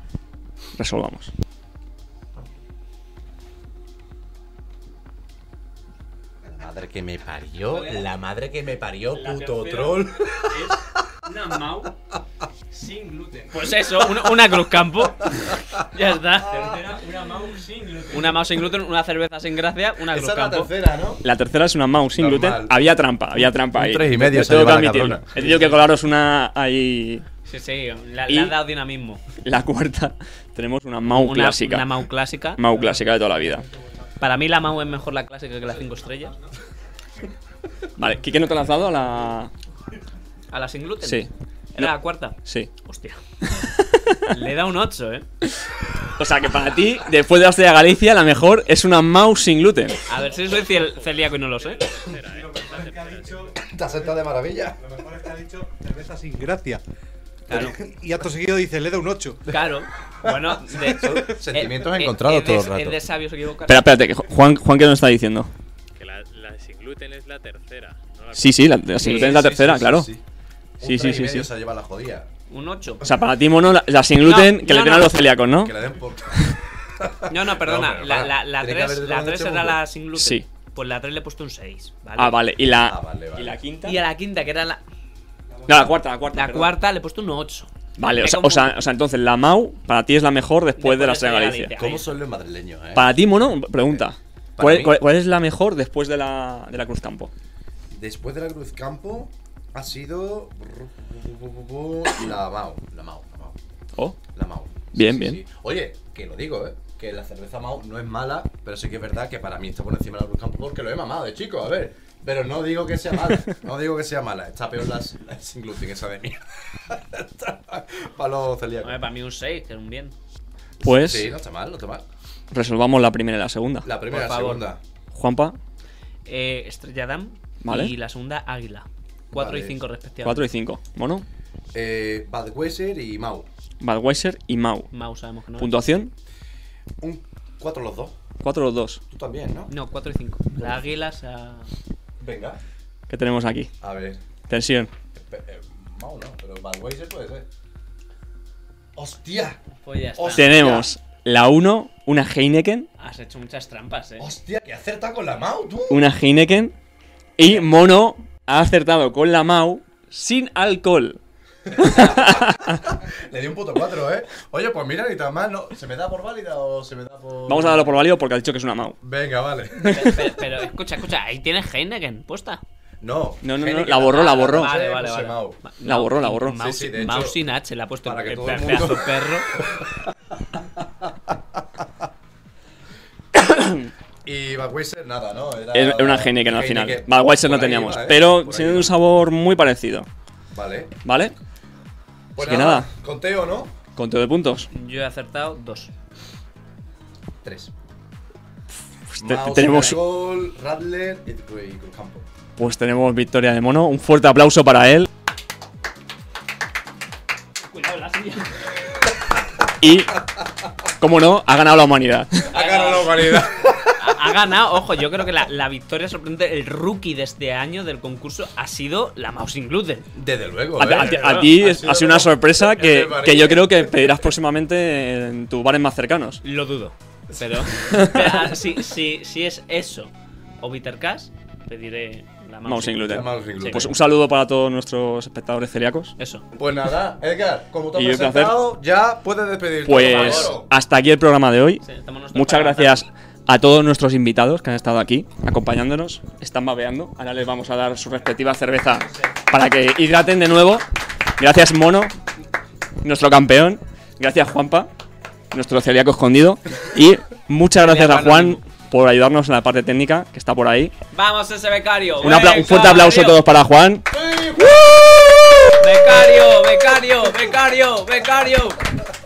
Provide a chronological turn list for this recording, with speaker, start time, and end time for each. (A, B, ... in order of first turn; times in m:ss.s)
0:00.8-0:01.3 A
0:06.4-0:11.1 B
0:07.7-0:08.0 C
0:09.2-0:09.6 A
0:09.2-0:09.9 C
0:11.3-0:11.8 A
0:11.4-0:11.7 C
0:12.7-0:13.8 C
0:13.5-0:17.0 D
0:14.9-0:15.6 B
0:16.5-0:18.6 C
0:16.7-0:18.3 A
0:18.1-0:20.7 D
0:20.1-0:21.2 B
0:21.2-0:27.3 A
0:22.1-0:22.8 B
0:23.4-0:25.8 B
0:27.4-0:29.2 D
0:28.3-0:28.6 A
0:29.4-0:31.9 A
0:31.1-0:32.6 D
0:32.6-0:33.7 A
0:34.2-0:36.4 D
0:38.0-0:39.5 A
0:40.5-0:43.2 D
0:41.0-0:42.7 A
0:43.4-0:44.4 A
0:44.3-0:45.3 D
0:46.2-0:50.0 A
0:50.1-0:51.9 D
0:50.2-0:53.7 E
0:52.3-0:53.6 F
0:53.6-0:55.0 B
0:54.8-0:56.8 F
0:57.5-0:57.8 B
0:57.5-0:57.8 D
0:57.5-0:59.4 F
0:59.5-1:03.9 D
1:00.2-1:03.0 B
1:03.7-1:05.5 A
1:06.0-1:08.9 E
1:08.4-1:10.1 A
1:09.0-1:10.2 B
1:09.0-1:09.4 D
1:10.8-1:12.3 B
1:10.8-1:11.5 A
1:12.5-1:13.0 D
1:13.0-1:15.8 A
1:14.2-1:15.3 D
1:15.6-1:19.8 B
1:17.3-1:22.4 D
1:20.2-1:20.5 A
1:22.2-1:24.0 A
1:22.8-1:23.6 B
1:23.8-1:24.8 D
1:25.7-1:26.8 A
1:26.3-1:28.7 D
1:28.0-1:31.7 A
1:30.8-1:32.1 D
1:31.8-1:33.2 B
1:33.0-1:37.3 A
1:33.8-1:34.0 B
1:34.6-1:35.0 B
1:37.9-1:43.6 B
1:44.3-1:59.0 B
1:44.9-1:45.4 A
1:58.8-2:00.1 D
2:00.8-2:02.0 B
2:00.8-2:01.4 A
2:02.5-2:03.9 A
2:03.8-2:04.8 B
2:04.1-2:04.6 D
2:05.1-2:05.6 A
2:06.3-2:10.4 D
2:07.6-2:08.0 A
2:09.3-2:09.8 B
2:10.2-2:11.3 A
2:11.7-2:13.5 B
2:13.8-2:14.9 A
2:14.9-2:15.8 D
2:15.6-2:16.1 A
2:17.0-2:18.2 B
2:18.4-2:19.0 A
2:19.1-2:19.7 B
2:19.7-2:21.7 D
2:20.6-2:20.8 B
2:22.2-2:22.6 B
2:23.1-2:23.7 A
2:23.8-2:24.2 B
2:24.5-2:24.9 A
2:25.1-2:27.5 B
2:29.0-2:29.6 B
2:29.8-2:30.8 D
2:30.1-2:30.9 B
2:30.3-2:32.9 A
2:33.0-2:34.3 D
2:34.2-2:36.1 B
2:35.9-2:36.8 A
2:37.4-2:41.2 A
2:37.4-2:37.7 D
2:41.7-2:48.1 B
2:41.7-2:42.8 A
2:41.8-2:42.3 D
2:47.5-2:49.0 A
2:49.0-2:50.5 B
2:49.8-2:52.6 D
2:53.0-2:55.6 B
2:53.4-2:54.8 A
2:53.9-2:59.6 D
2:55.8-2:56.6 A
2:56.5-2:57.4 B
2:58.0-3:01.8 B
3:03.4-3:03.9 A
3:04.2-3:09.0 B
3:05.7-3:10.1 A
3:10.5-3:11.0 B
3:11.0-3:11.4 A
3:12.4-3:13.7 B
3:12.4-3:12.9 A
3:14.0-3:14.7 A
3:14.7-3:15.9 D
3:17.4-3:17.7 B
3:19.1-3:20.0 A
3:19.2-3:22.3 B
3:22.6-3:25.1 A
3:27.6-3:28.8 D
3:29.8-3:30.2 A
3:31.0-3:32.5 A
3:32.5-3:34.4 B
3:32.5-3:33.4 D
3:34.0-3:40.1 D
3:40.1-3:44.1 B
3:40.8-3:46.4 A
3:40.9-3:41.6 D
3:46.4-3:53.9 D
3:47.8-3:48.6 A
3:52.6-3:56.2 A
3:53.1-3:54.0 B
3:56.2-3:56.5 D
3:56.5-4:00.7 B
3:58.0-3:58.6 A
3:59.8-4:01.8 A
3:59.9-4:00.6 D
4:01.8-4:03.1 D
4:02.3-4:12.1 A
4:13.0-4:14.9 A
4:15.5-4:20.9 A
4:17.8-4:18.6 D
4:21.1-4:23.4 D
4:22.2-4:24.1 A
4:24.1-4:26.1 B
4:25.8-4:28.8 D